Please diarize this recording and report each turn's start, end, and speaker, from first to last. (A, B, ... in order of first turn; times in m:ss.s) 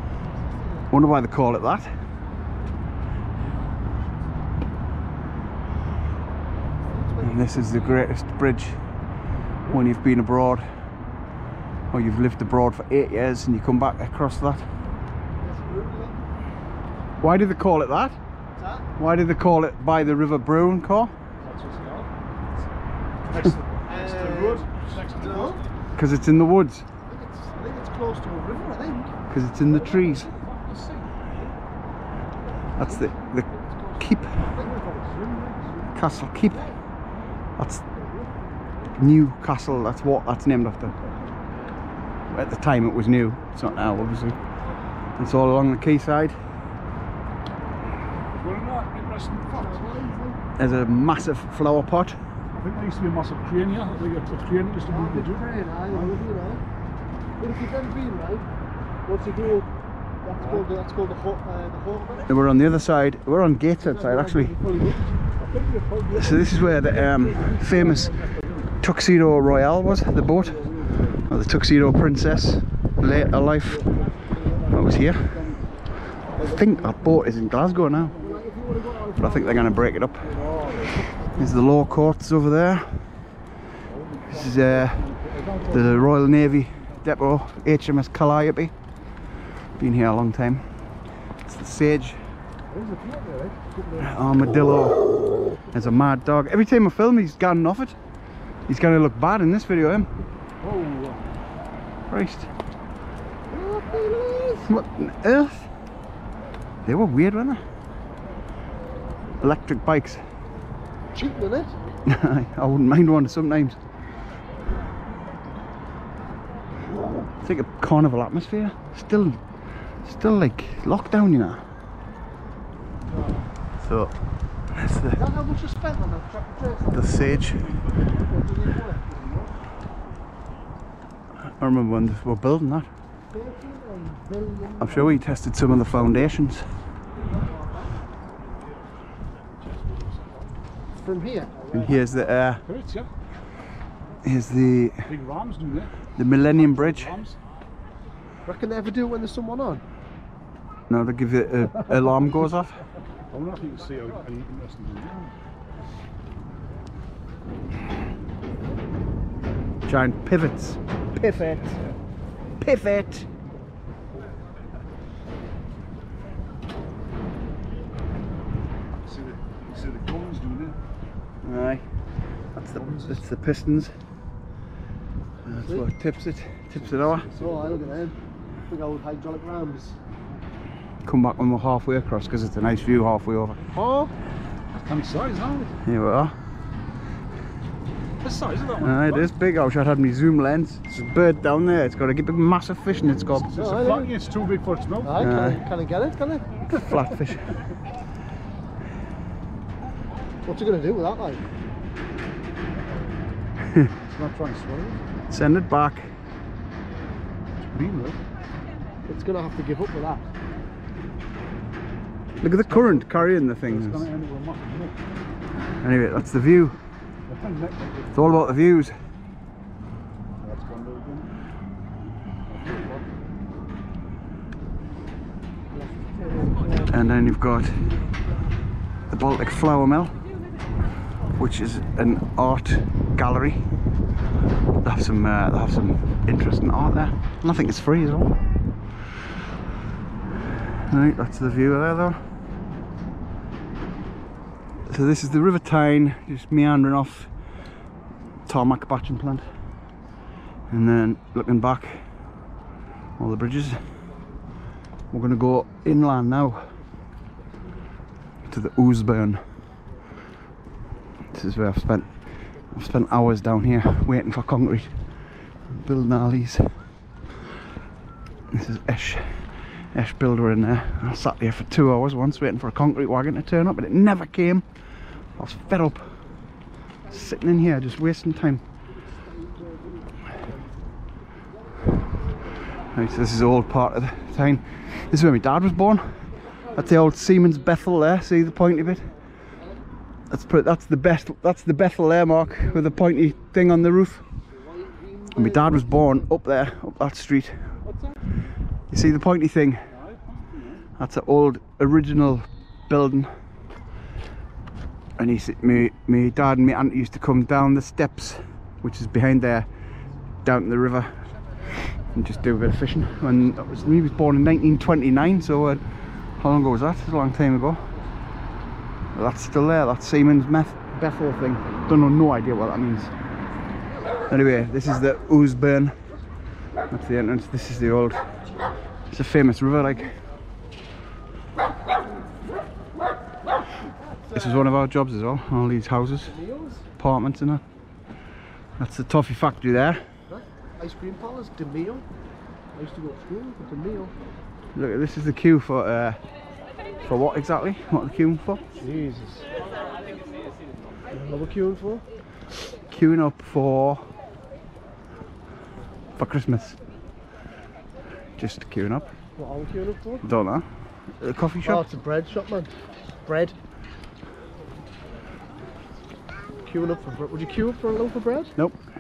0:00.3-0:00.9 A
0:00.9-0:01.9 B
0:06.8-0:08.2 A
0:07.2-0:08.8 B
0:09.7-0:10.7 B
0:11.9-0:14.7 B
0:15.4-0:16.2 A
0:17.2-0:18.2 B
0:18.6-0:18.9 A
0:19.0-0:21.1 B
0:21.4-0:22.1 C
0:23.3-0:25.7 C
0:23.8-0:25.6 A
0:26.0-0:26.9 B
0:27.1-0:29.2 A
0:29.3-0:30.3 B
0:29.7-0:31.2 C
0:32.5-0:34.8 A
0:32.8-0:33.5 B
0:34.0-0:34.4 B
0:34.4-0:36.0 C
0:36.0-0:36.6 B
0:36.5-0:36.8 A
0:37.6-0:37.9 B
0:39.0-0:41.0 B
0:42.3-0:44.4 B
0:45.2-0:46.4 B
0:48.3-0:49.9 C
0:49.5-0:50.4 A
0:50.6-0:52.2 B
0:52.5-0:56.2 C
0:54.9-0:56.6 A
0:57.4-0:58.5 A
0:59.0-0:59.7 A
1:00.2-1:02.3 A
1:00.4-1:00.7 C
1:02.3-1:04.6 B
1:03.8-1:05.1 A
1:05.1-1:08.7 C
1:06.1-1:08.2 B
1:07.0-1:07.7 A
1:08.8-1:13.9 B
1:10.0-1:11.2 C
1:13.6-1:18.9 C
1:14.7-1:15.4 B
1:16.4-1:18.2 B
1:18.2-1:21.4 A
1:19.2-1:20.3 B
1:20.4-1:21.5 C
1:21.4-1:23.1 B
1:23.8-1:26.9 C
1:24.3-1:25.0 B
1:25.7-1:28.7 B
1:29.8-1:30.8 B
1:31.4-1:32.3 B
1:32.7-1:33.3 C
1:32.8-1:34.1 A
1:34.0-1:35.0 B
1:35.7-1:38.0 B
1:38.7-1:40.1 B
1:40.6-1:41.3 C
1:42.1-1:42.5 B
1:43.5-1:44.7 A
1:44.7-1:45.7 B
1:46.8-1:47.6 B
1:49.4-1:50.2 B
1:51.1-1:51.7 A
1:52.0-1:53.8 B
1:57.4-1:59.4 B
2:00.0-2:01.6 B
2:03.8-2:05.2 B
2:05.1-2:09.4 A
2:06.9-2:07.8 B
2:11.6-2:12.9 B
2:13.3-2:15.2 A
2:14.8-2:16.7 B
2:17.3-2:17.9 A
2:19.6-2:20.5 C
2:21.0-2:22.4 A
2:21.7-2:22.6 B
2:22.6-2:23.1 C
2:24.2-2:25.1 B
2:25.0-2:27.4 C
2:26.2-2:27.2 B
2:28.4-2:29.8 A
2:30.9-2:32.8 B
2:33.3-2:35.3 C
2:39.9-2:41.8 B
2:41.3-2:42.0 C
2:42.6-2:43.3 B
2:49.0-2:50.8 C
2:51.4-2:51.8 B
2:52.6-2:53.9 B
2:52.8-2:53.2 C
2:55.4-2:57.3 B
2:55.5-2:55.9 A
2:56.7-2:58.1 C
2:57.4-3:00.0 A
3:01.0-3:03.7 B
3:03.7-3:04.1 A
3:04.7-3:05.8 C
3:05.8-3:06.4 B
3:08.2-3:09.3 C
3:08.8-3:13.5 B
3:13.5-3:15.3 C
3:13.6-3:14.1 A
3:15.0-3:16.9 A
3:15.2-3:15.6 B
3:16.7-3:17.6 B
3:20.4-3:21.4 A
3:24.0-3:25.0 C
3:25.3-3:26.1 B
3:27.7-3:28.2 C
3:29.1-3:30.3 A
3:32.4-3:34.1 B
3:32.6-3:35.0 C
3:35.8-3:36.8 B
3:37.3-3:38.4 C
3:38.1-3:39.0 B
3:40.4-3:41.3 C
3:42.4-3:43.1 C
3:45.7-3:47.0 A
3:46.9-3:48.0 B
3:49.1-3:50.2 B
3:51.4-3:53.7 B
3:54.8-3:58.4 B
4:00.8-4:02.2 B
4:04.9-4:07.3 B
4:08.5-4:09.5 B
4:10.7-4:12.1 B
4:13.2-4:13.9 B
4:15.1-4:16.8 B
4:18.5-4:19.4 B
4:21.3-4:26.8 B
4:28.5-4:36.2 B
4:37.1-4:38.6 B
4:39.1-4:40.1 A
4:42.9-4:49.1 B
4:50.3-4:54.3 B
4:54.5-4:56.0 A
4:55.3-4:57.8 B
4:57.9-4:58.2 C
4:58.9-4:59.9 B
4:59.9-5:00.9 C
5:01.0-5:03.3 B
5:05.2-5:09.7 B
5:10.4-5:17.9 B
5:19.1-5:23.1 B
5:24.3-5:26.0 B
5:26.9-5:28.3 B
5:29.1-5:30.1 B
5:34.3-5:36.4 B
5:36.2-5:36.9 A
5:37.0-5:37.6 B
5:38.8-5:40.1 B
5:40.3-5:42.1 A
5:42.7-5:44.1 A
5:44.8-5:46.2 B
5:47.0-5:48.7 B
5:48.8-5:49.5 A
5:51.1-5:52.0 A
5:52.9-5:54.1 B
5:56.2-5:56.8 B
5:58.4-5:59.1 B
5:59.4-6:00.2 A
6:00.2-6:00.7 B
6:01.2-6:01.8 B
6:01.6-6:02.7 A
6:03.2-6:03.6 A
6:06.6-6:08.5 A